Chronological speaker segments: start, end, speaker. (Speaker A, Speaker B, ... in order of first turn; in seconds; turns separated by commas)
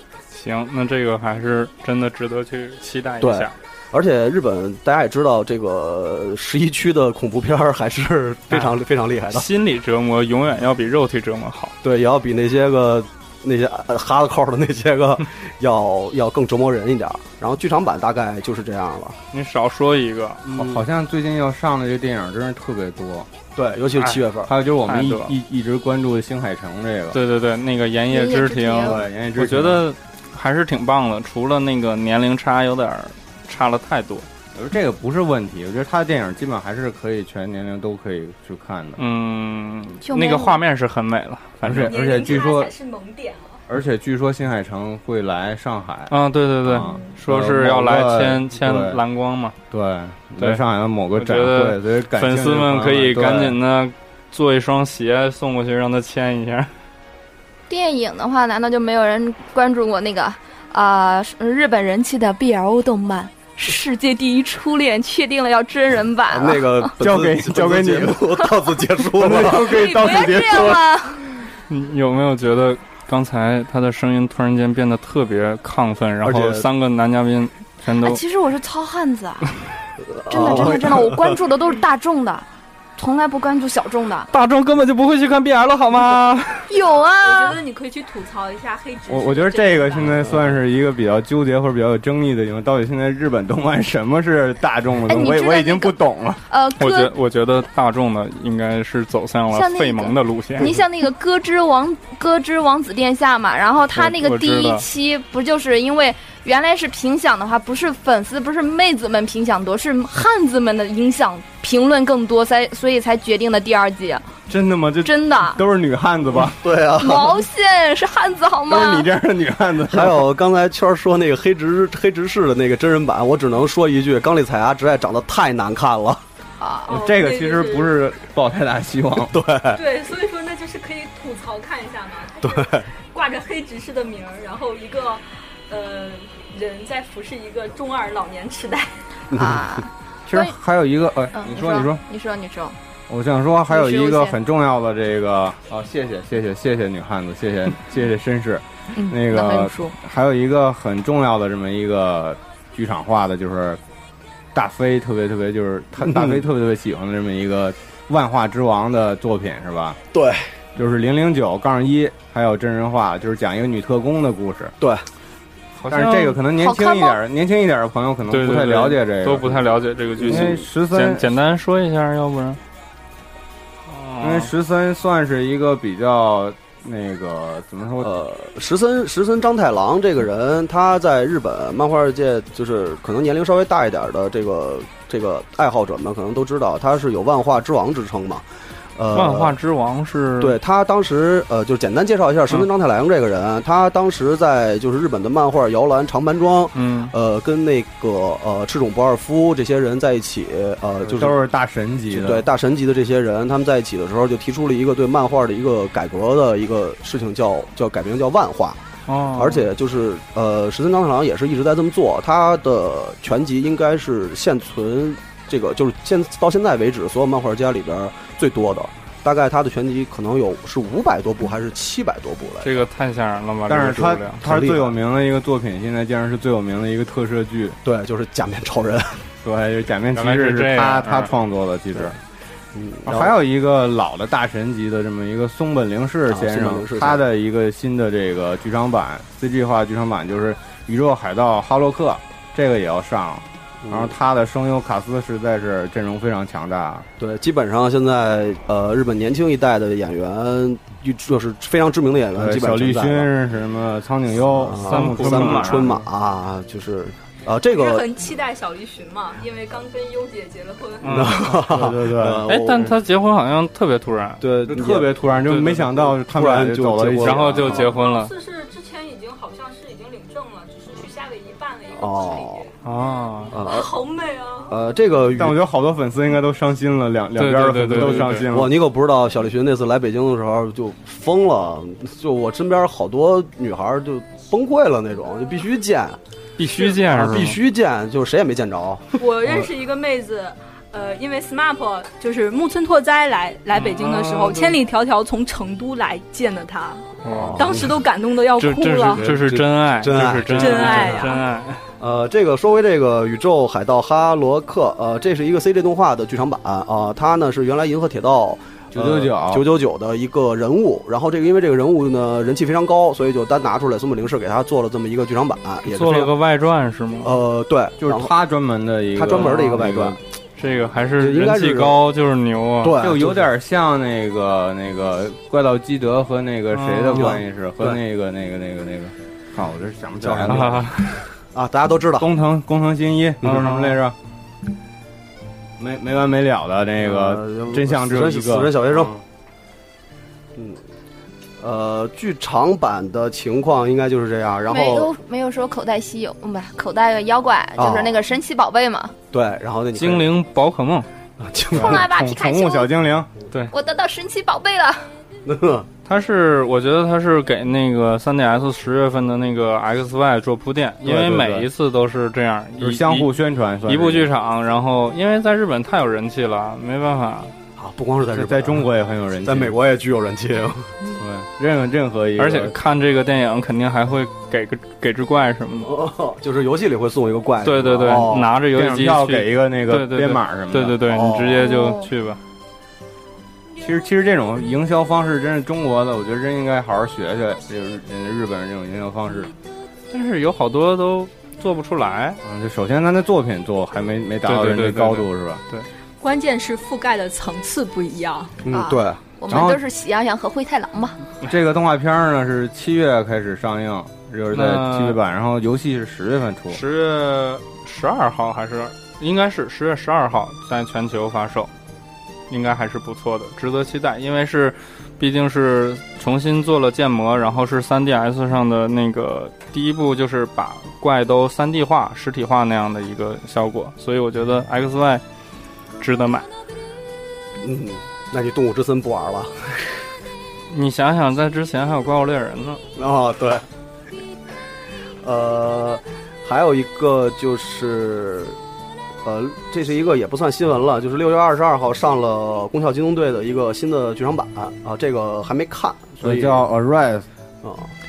Speaker A: 0.3-3.6, Speaker B: 3.2-9.5, Speaker A: 8.5-11.8, Speaker B: 11.8-19.2, Speaker A: 19.3-20.4, Speaker C: 20.5-23.3, Speaker B: 20.5-20.8, Speaker B: 23.6-24.5, Speaker A: 24.0-24.2, Speaker C: 24.5-27.2, Speaker A: 24.9-25.4, Speaker A: 27.1-34.3, Speaker D: 28.1-29.0, Speaker C: 28.8-29.8, Speaker C: 34.5-39.0, Speaker A: 39.0-41.9, Speaker D: 40.0-40.6, Speaker C: 41.6-42.7, Speaker E: 41.7-43.6, Speaker C: 43.7-49.0, Speaker A: 46.1-49.6, Speaker C: 49.7-53.6, Speaker A: 51.1-56.7, Speaker D: 57.7-66.9, Speaker B: 66.3-69.7, Speaker C: 67.0-68.2, Speaker C: 69.2-70.8, Speaker D: 69.5-71.2, Speaker A: 71.7-78.2, Speaker B: 76.2-76.7, Speaker D: 77.9-79.5, Speaker B: 80.1-81.4, Speaker D: 80.3-82.5, Speaker D: 83.0-84.3, Speaker A: 84.3-86.7, Speaker D: 86.7-87.6, Speaker E: 87.2-90.3, Speaker C: 89.1-96.4, Speaker D: 95.1-96.0, Speaker D: 96.5-97.1, Speaker A: 96.8-100.8, Speaker D: 99.5-114.3, Speaker A: 104.0-104.8, Speaker C: 114.5-116.6, Speaker D: 115.0-115.6, Speaker B: 116.4-117.4, Speaker D: 117.0-119.1, Speaker C: 118.7-120.3, Speaker B: 119.9-126.2, Speaker D: 126.6-126.9, Speaker E: 126.9-128.1, Speaker C: 126.9-129.4, Speaker B: 129.3-129.8, Speaker E: 129.7-139.0, Speaker B: 132.4-132.9, Speaker B: 139.3-139.8, Speaker D: 139.3-140.6, Speaker C: 140.3-142.0, Speaker D: 141.3-142.8, Speaker C: 143.1-153.8, Speaker D: 143.7-144.4, Speaker D: 148.9-150.0, Speaker C: 154.5-160.0, Speaker B: 156.0-156.4, Speaker B: 160.1-160.5, Speaker C: 160.8-164.8, Speaker B: 164.8-165.1, Speaker A: 165.8-166.4, Speaker C: 165.9-169.6, Speaker D: 166.6-167.2, Speaker A: 168.3-172.6, Speaker B: 170.2-170.7, Speaker C: 170.2-171.3, Speaker A: 173.9-174.5, Speaker C: 174.2-178.1, Speaker B: 178.0-188.4, Speaker B: 189.0-189.6, Speaker A: 189.1-190.6, Speaker B: 190.4-201.3, Speaker A: 196.8-197.1, Speaker C: 201.1-202.5, Speaker B: 202.1-208.8, Speaker A: 209.1-209.7, Speaker B: 209.3-222.8, Speaker A: 222.6-224.4, Speaker C: 223.7-227.8, Speaker B: 224.4-224.9, Speaker B: 227.8-229.3, Speaker C: 229.4-232.2, Speaker A: 230.2-231.3, Speaker B: 232.7-233.3, Speaker C: 233.1-247.1, Speaker B: 236.3-237.2, Speaker B: 243.8-244.1, Speaker B: 247.2-253.3, Speaker C: 252.3-256.0, Speaker B: 254.5-258.1, Speaker A: 254.8-256.0, Speaker E: 257.7-261.3, Speaker A: 261.0-261.6, Speaker B: 261.1-262.9, Speaker C: 261.7-262.4, Speaker A: 262.5-264.4, Speaker B: 264.4-265.1, Speaker C: 264.7-267.8, Speaker A: 265.5-265.9, Speaker B: 266.0-267.9, Speaker A: 267.2-268.3, Speaker E: 267.8-272.7, Speaker B: 272.0-272.7, Speaker A: 272.8-273.6, Speaker B: 273.5-273.9, Speaker E: 273.5-274.8, Speaker B: 274.7-275.6, Speaker C: 275.4-278.8, Speaker A: 277.4-278.5, Speaker B: 277.9-286.2, Speaker A: 286.6-287.6, Speaker B: 287.0-289.6, Speaker E: 289.2-299.3, Speaker A: 293.7-294.8, Speaker A: 297.2-297.6, Speaker B: 297.3-298.0, Speaker A: 298.6-301.9, Speaker B: 299.1-301.4, Speaker E: 300.5-301.4, Speaker B: 302.0-316.3, Speaker C: 308.9-309.7, Speaker A: 315.9-317.4, Speaker B: 317.2-318.3, Speaker C: 318.0-320.2, Speaker B: 319.1-320.2, Speaker A: 319.3-319.8, Speaker A: 320.6-323.0, Speaker B: 321.2-322.0, Speaker B: 322.8-323.5, Speaker C: 323.0-330.9, Speaker A: 326.7-327.4, Speaker B: 327.2-328.0, Speaker B: 330.2-330.9, Speaker A: 330.5-331.2, Speaker B: 331.5-332.3, Speaker C: 332.2-334.2, Speaker A: 333.4-334.0, Speaker C: 335.8-339.2, Speaker B: 337.0-339.1, Speaker B: 341.6-345.1, Speaker D: 344.7-349.1, Speaker B: 347.8-348.2, Speaker B: 349.3-350.3, Speaker A: 349.9-351.1, Speaker B: 351.4-352.0, Speaker C: 351.7-353.3, Speaker D: 351.7-352.9, Speaker D: 353.7-355.1, Speaker B: 355.5-355.9, Speaker A: 356.1-363.3, Speaker C: 361.0-361.7, Speaker C: 362.8-364.3, Speaker A: 363.9-367.5, Speaker B: 367.8-368.9, Speaker C: 368.3-369.8, Speaker B: 369.4-371.2, Speaker C: 371.2-372.8, Speaker A: 372.4-375.9, Speaker B: 375.8-378.5, Speaker A: 377.6-382.4, Speaker C: 378.7-381.0, Speaker B: 381.1-381.7, Speaker D: 381.6-382.1, Speaker C: 383.8-389.5, Speaker A: 390.1-392.4, Speaker C: 392.4-395.6, Speaker A: 394.5-395.9, Speaker E: 396.2-398.6, Speaker B: 398.6-399.2, Speaker D: 398.7-401.2, Speaker C: 399.5-399.8, Speaker C: 401.4-406.8, Speaker A: 404.5-405.2, Speaker A: 406.7-411.7, Speaker A: 412.5-425.2, Speaker A: 426.0-426.5, Speaker B: 427.6-429.9, Speaker A: 430.7-432.8, Speaker B: 433.0-433.7, Speaker B: 435.2-438.6, Speaker B: 439.2-446.6, Speaker C: 446.2-447.3, Speaker B: 447.6-447.9